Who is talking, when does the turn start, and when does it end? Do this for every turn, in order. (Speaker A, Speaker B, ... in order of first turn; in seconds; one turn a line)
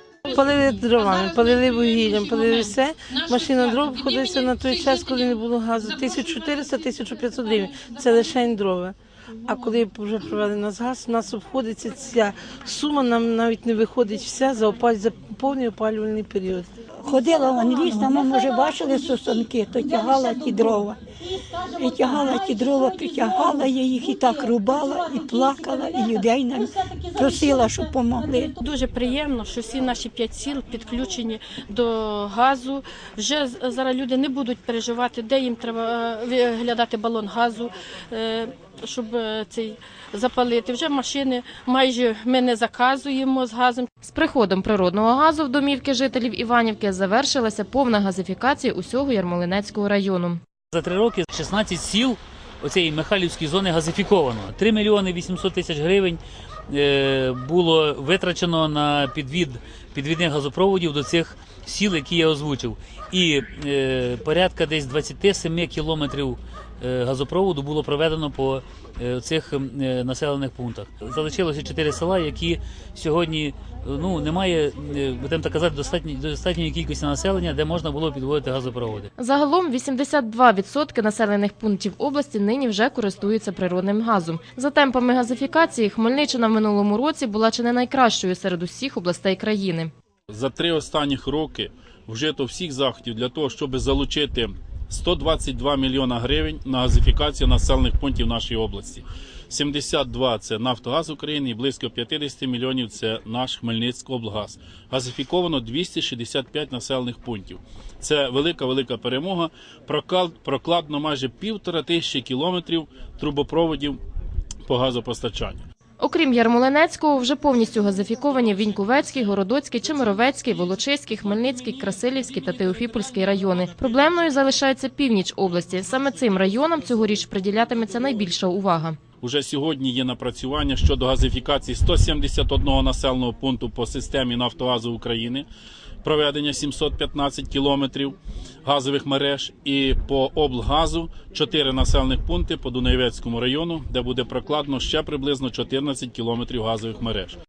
Speaker A: 0.3-16.7
Speaker B: 17.0-21.0
Speaker A: 17.7-18.4
Speaker A: 20.0-20.6
Speaker B: 21.6-28.6
Speaker A: 21.6-23.5
Speaker A: 24.1-26.2
Speaker A: 27.0-27.7
Speaker C: 28.6-43.9
Speaker D: 44.0-50.4
Speaker E: 50.7-79.1
Speaker D: 79.2-89.9
Speaker F: 90.3-114.0
Speaker F: 114.7-115.6
Speaker D: 116.0-129.0
Speaker F: 129.2-135.5
Speaker F: 136.0-147.4